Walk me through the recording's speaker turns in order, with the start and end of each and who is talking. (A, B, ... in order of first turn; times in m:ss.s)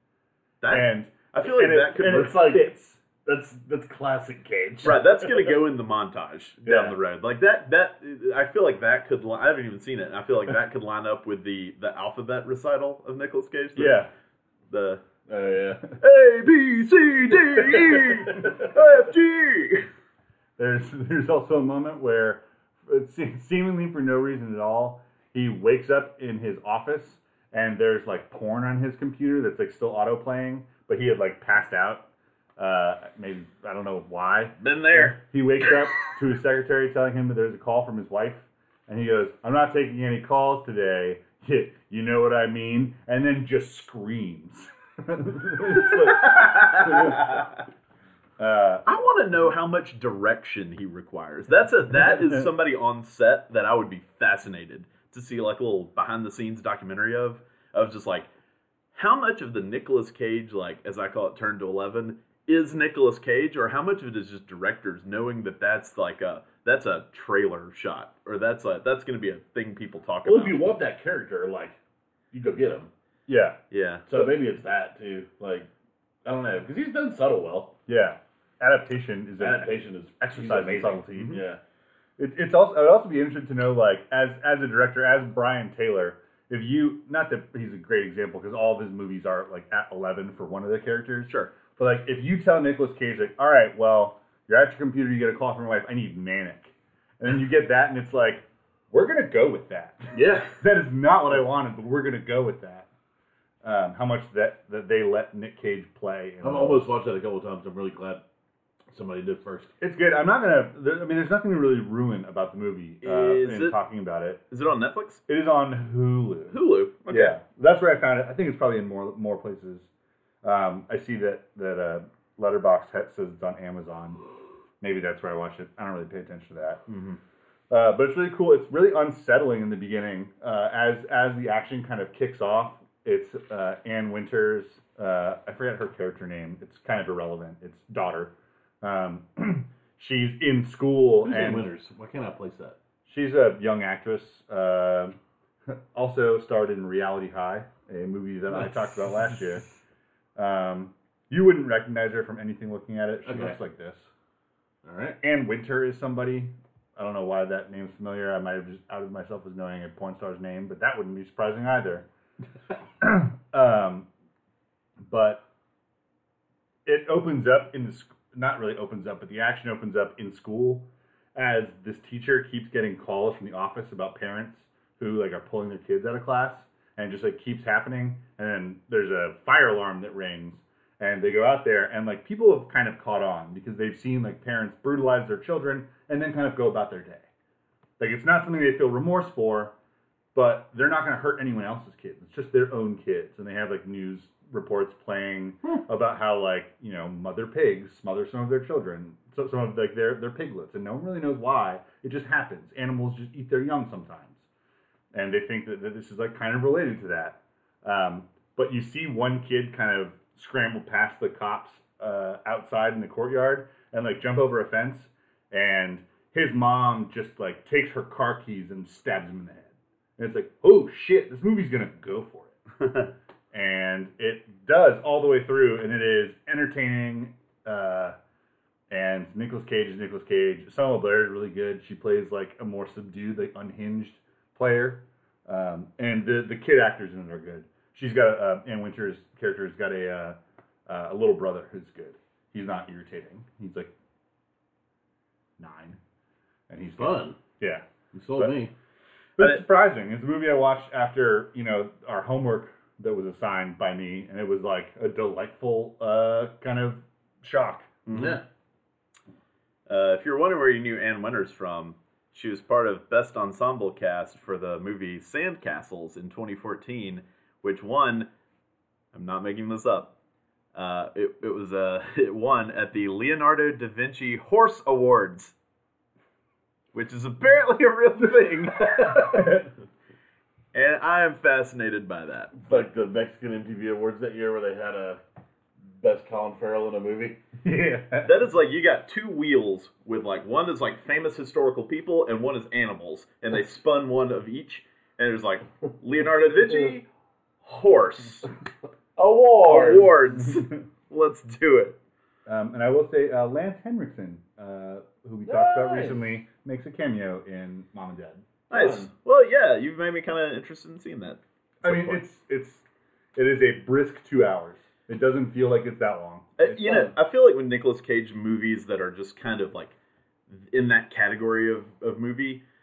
0:00.6-0:02.4 A
0:00.7-0:03.0 B
0:02.0-0:02.7 C
0:03.2-0:05.5 C
0:04.8-0:14.0 A
0:06.7-0:06.9 B
0:13.8-0:14.1 B
0:14.7-0:15.0 A
0:15.3-0:15.8 C
0:16.0-0:19.9 A
0:20.6-0:47.3 B
0:34.6-0:35.2 A
0:45.7-0:47.6 A
0:48.4-0:48.8 B
0:48.8-0:58.3 A
0:58.9-1:10.6 A
1:10.2-1:11.8 C
1:12.3-1:12.9 C
1:13.3-1:13.6 B
1:13.7-1:14.0 A
1:14.1-1:15.7 C
1:16.2-1:17.7 C
1:17.9-1:21.4 B
1:19.4-1:21.6 C
1:21.2-1:21.4 A
1:22.2-1:42.9 B
1:31.3-1:31.5 A
1:40.1-1:40.6 C
1:43.6-1:46.9 B
1:46.4-1:48.2 C
1:48.9-1:49.7 C
1:49.8-1:54.4 B
1:53.0-1:53.8 A
1:54.5-1:55.2 A
1:55.3-1:59.9 B
1:56.5-1:57.4 A
2:00.4-2:04.2 B
2:04.8-2:06.8 B
2:06.9-2:07.2 A
2:07.7-2:21.7 B
2:21.2-2:22.8 C
2:23.0-2:29.6 B
2:28.5-2:29.6 C
2:30.4-2:34.1 B
2:33.2-2:33.6 C
2:34.8-2:35.2 C
2:35.2-2:42.1 B
2:43.0-2:44.1 B
2:45.0-2:45.4 B
2:46.8-3:07.3 B
3:08.0-3:09.7 B
3:10.3-3:24.4 B
3:25.1-3:42.6 B
3:43.5-3:48.2 B
3:48.9-4:03.9 B
4:05.6-4:06.0 B
4:06.7-4:08.6 B
4:06.9-4:07.4 C
4:08.1-4:08.7 C
4:09.4-4:18.0 B
4:09.4-4:09.6 A
4:18.0-4:18.4 A
4:18.1-4:18.4 C
4:19.9-4:28.3 A
4:29.1-4:30.1 A
4:30.7-4:35.5 A
4:36.9-4:39.5 A
4:39.2-4:39.7 B
4:40.7-4:42.8 A
4:42.6-4:45.2 C
4:46.0-4:47.4 C
4:47.6-4:48.4 B
4:48.2-4:57.1 A
4:57.6-4:58.5 A
4:59.2-5:00.1 C
4:59.6-5:02.0 A
5:02.4-5:08.4 B
5:05.4-5:06.4 C
5:08.7-5:12.2 A
5:08.7-5:09.1 C
5:11.8-5:17.1 B
5:16.6-5:19.9 A
5:20.5-5:22.6 A